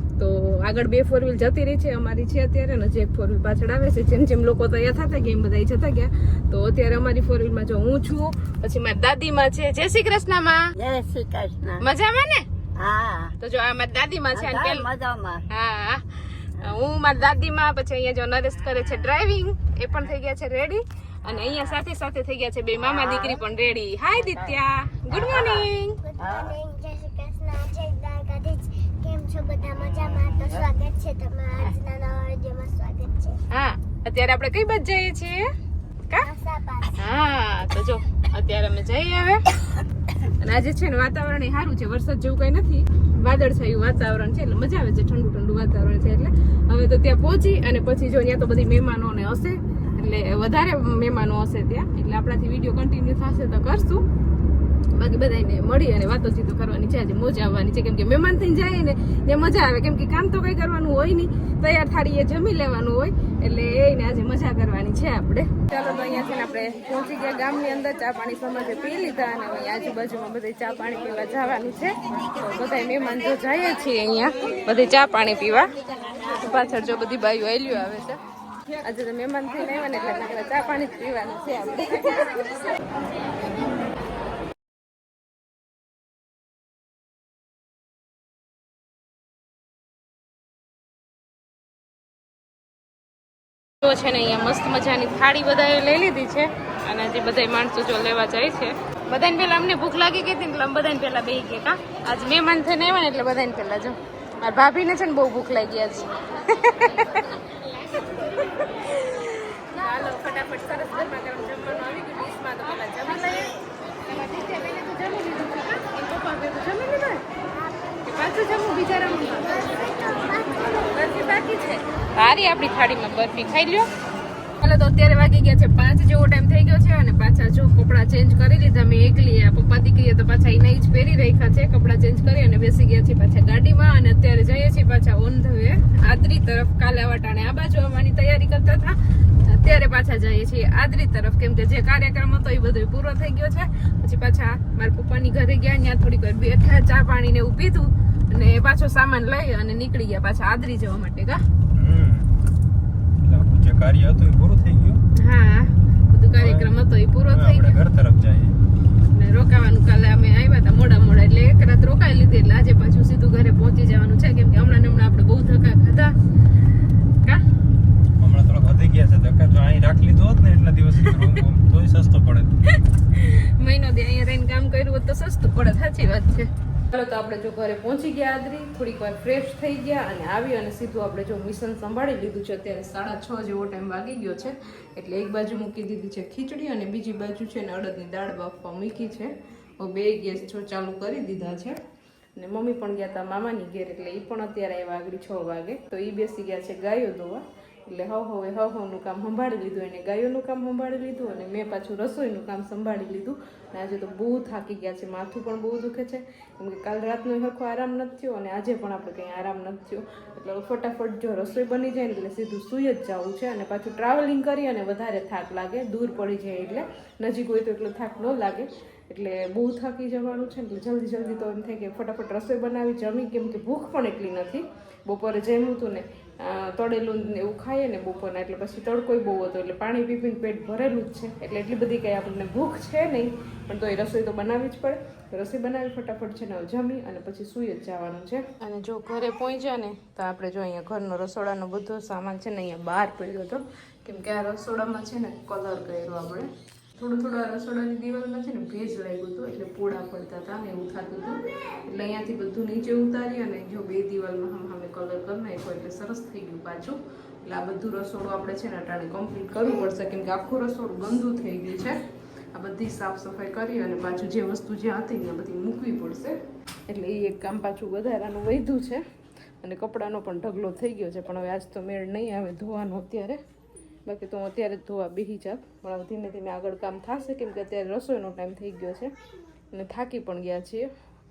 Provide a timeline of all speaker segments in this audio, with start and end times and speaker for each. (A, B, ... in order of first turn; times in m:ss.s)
0:00.2-0:10.7 A
0:10.8-0:11.8 B
0:11.8-0:12.5 A
0:12.8-0:13.3 B
0:13.4-0:14.9 A
0:14.3-0:15.4 B
0:15.5-0:26.0 A
0:22.8-0:23.4 B
0:25.1-0:33.4 C
0:26.2-0:26.6 B
0:30.1-0:30.6 B
0:33.5-0:35.5 A
0:36.2-0:37.0 C
0:37.0-0:39.4 A
0:40.2-0:54.1 A
0:54.9-1:18.2 A
1:18.8-1:22.7 A
1:33.8-1:57.3 A
1:57.5-1:58.0 C
1:58.0-2:03.9 A
1:59.7-2:00.9 C
2:04.6-2:31.4 A
2:31.7-2:32.3 D
2:33.2-2:35.0 D
2:35.2-2:37.8 A
2:36.4-2:36.7 D
2:37.3-2:38.6 D
2:39.1-2:46.2 A
2:48.2-2:52.5 D
2:53.1-3:11.8 A
3:12.4-4:22.0 A
4:22.5-4:29.0 A
4:29.6-4:33.4 A
4:34.0-4:39.1 A
4:39.7-4:40.9 A